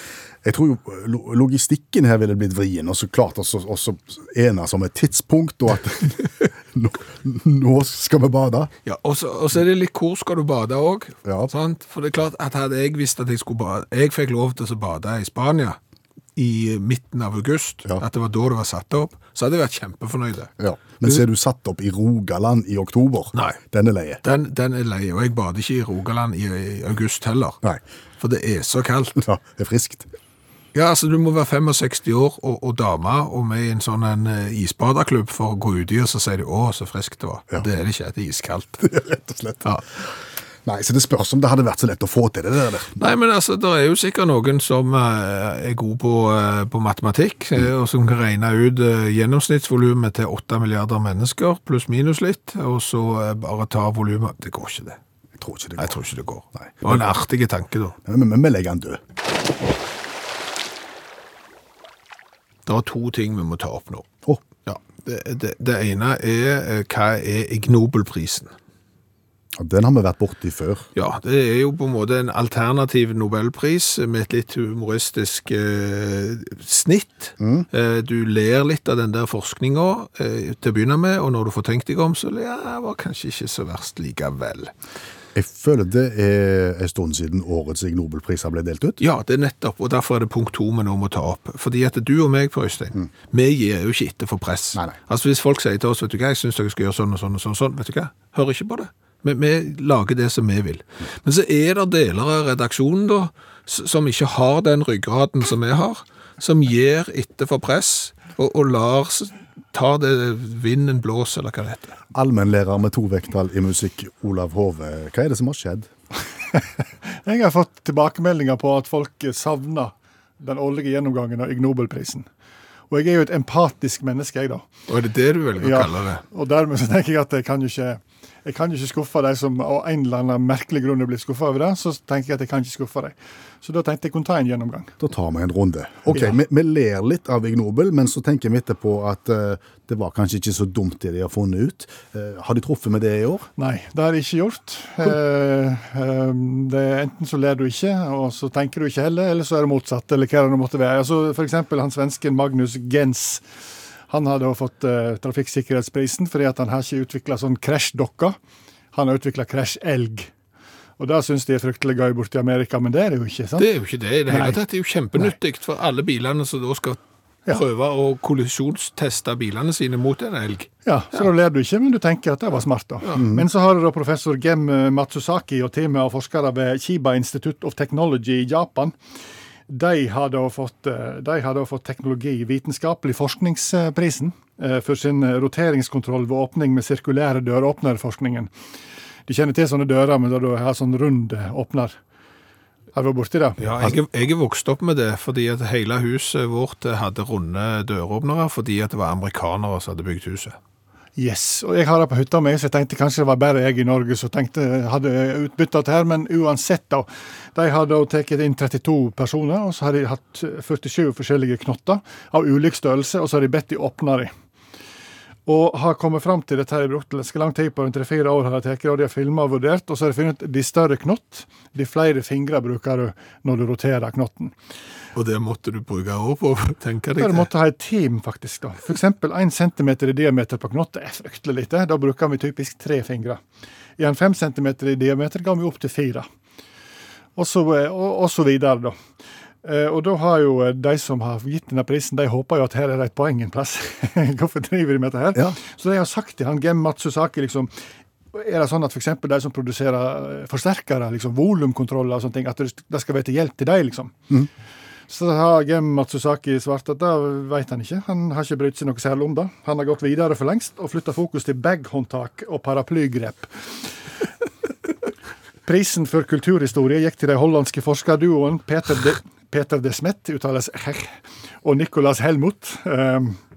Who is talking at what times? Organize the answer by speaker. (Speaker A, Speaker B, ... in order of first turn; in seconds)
Speaker A: 0.4-8.7, 11.2-11.5, 20.6-24.2, 29.2-30.1, 38.8-39.7, 40.6-43.0, 55.4-55.9, 56.6-57.1, 58.1-59.0, 69.6-70.9, 77.4-77.7, 85.3-89.0, 112.1-115.9, 135.0-143.5, 173.2-173.5
Speaker B: 8.8-15.8, 16.4-20.5, 23.4-23.6, 24.2-27.6, 28.2-29.2, 30.7-38.9, 43.0-55.0, 55.8-58.0, 62.7-64.1, 64.7-68.5, 71.0-84.7, 89.0-112.0, 124.9-126.2, 163.6-171.3, 193.6-200.6, 225.2-227.5
Speaker C: 117.2-122.3, 122.9-124.7, 125.6-134.9, 143.6-153.4, 154.1-158.4, 158.9-160.3, 161.0-163.7, 164.3-164.6, 170.9-179.0, 179.7-188.5, 189.3-192.0, 192.9-193.9, 201.2-214.3, 215.5-224.6, 227.2-233.4, 234.0-236.3, 237.4-239.0, 239.6-247.7, 248.3-254.2, 255.1-263.7, 265.6-273.4